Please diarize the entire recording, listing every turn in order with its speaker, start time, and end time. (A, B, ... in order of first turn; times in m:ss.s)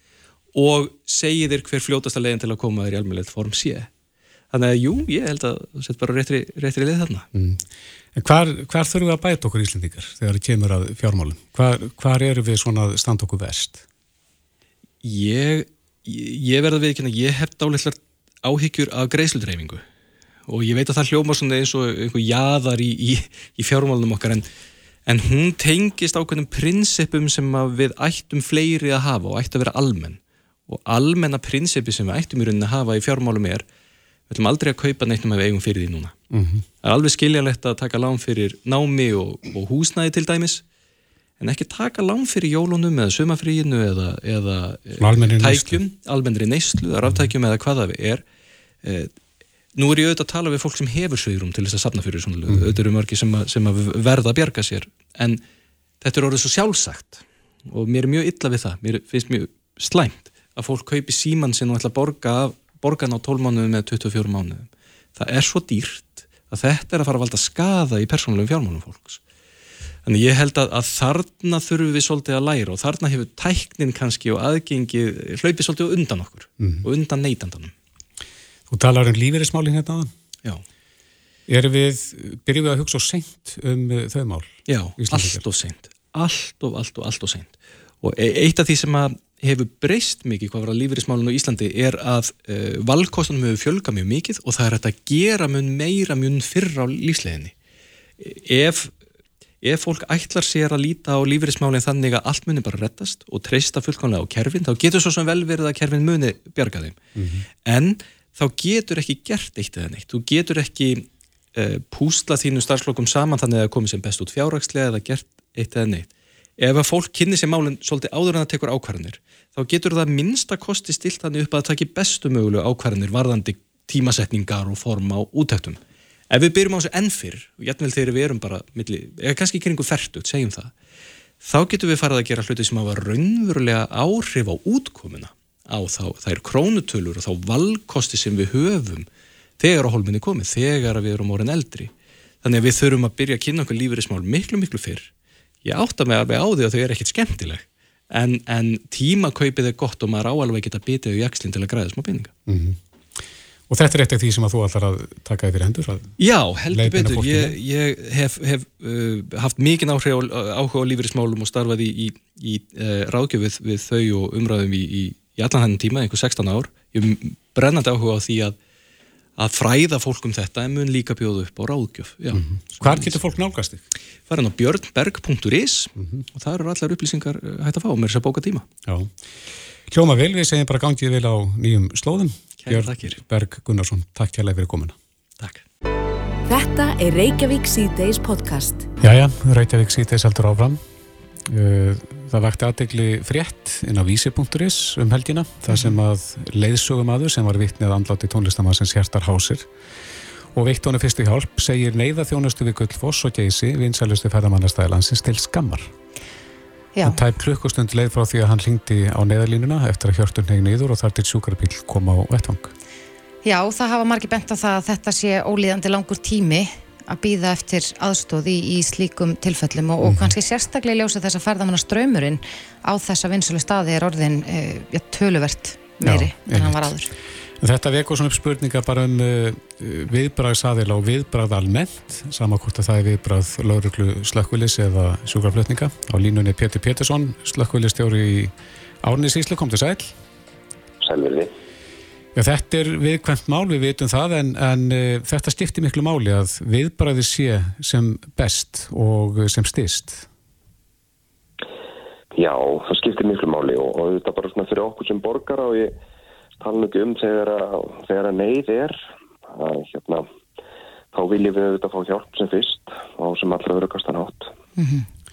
0:00.5-0:03.9 A
0:04.5-0:07.3 A
0:07.3-0:07.6 B
0:08.1-0:13.8 B
0:15.0-0:19.8 A
0:20.5-0:24.4 A
0:25.1-0:33.6 A
0:34.3-0:36.2 A
0:36.3-0:36.6 B
0:36.8-0:40.6 A
0:41.4-0:48.2 A
0:45.0-0:45.8 B
0:48.8-0:49.1 A
0:49.8-0:55.4 A
0:52.5-0:52.8 B
0:56.0-1:09.2 A
1:10.0-1:17.7 A
1:18.7-1:20.1 B
1:21.5-1:25.4 B
1:24.7-1:37.5 A
1:38.2-1:38.9 A
1:39.6-1:47.0 A
1:47.2-1:47.4 B
1:47.6-2:05.8 A
2:06.3-2:10.7 A
2:11.4-2:19.1 A
2:19.6-2:25.1 A
2:25.6-2:32.3 A
2:32.4-2:32.8 B
2:33.7-2:36.1 B
2:36.2-2:48.6 A
2:36.7-2:37.6 B
2:49.4-2:53.2 A
2:52.3-2:53.8 B
2:54.3-2:58.7 A
2:56.0-2:56.2 B
2:58.9-2:59.1 B
2:59.9-3:05.0 B
3:02.6-3:03.2 A
3:06.5-3:08.9 C
3:09.0-3:10.8 B
3:11.5-3:19.7 B
3:20.5-3:25.9 B
3:27.0-3:32.7 B
3:33.4-3:47.1 D
3:40.0-3:40.3 B
3:46.0-3:46.9 B
3:47.6-4:00.1 B
4:01.0-4:01.5 E
4:02.4-4:10.3 B
4:12.4-4:15.9 E
4:16.6-4:20.3 E
4:21.1-4:24.5 E
4:24.8-4:25.0 D